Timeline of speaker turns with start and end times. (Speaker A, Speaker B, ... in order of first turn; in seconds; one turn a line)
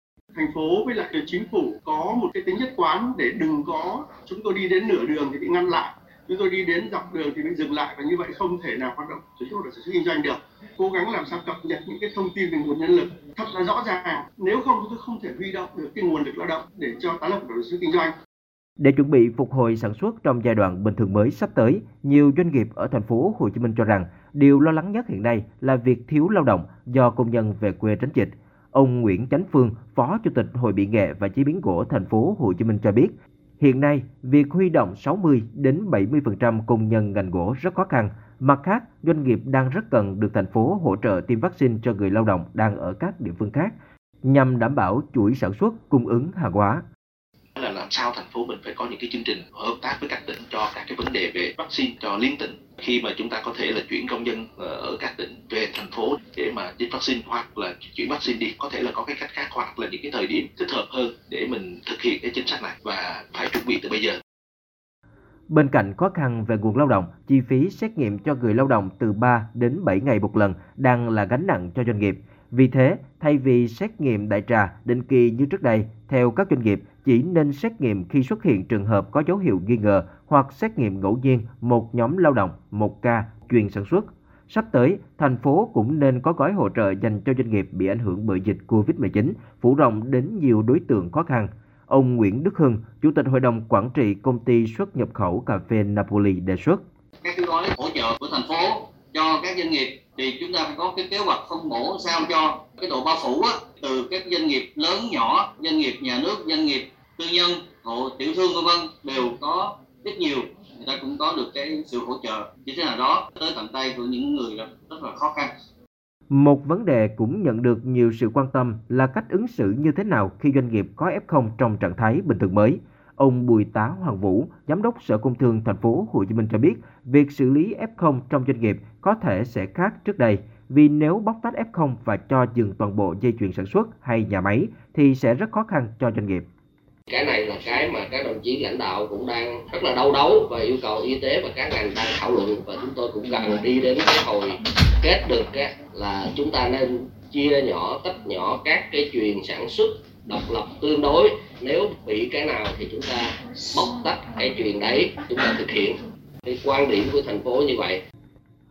Speaker A: 0.3-18.1
Speaker B: 18.8-46.8
Speaker C: 47.5-64.2
Speaker B: 65.5-96.8
Speaker D: 97.2-115.5
Speaker B: 116.3-136.4
Speaker E: 137.1-158.0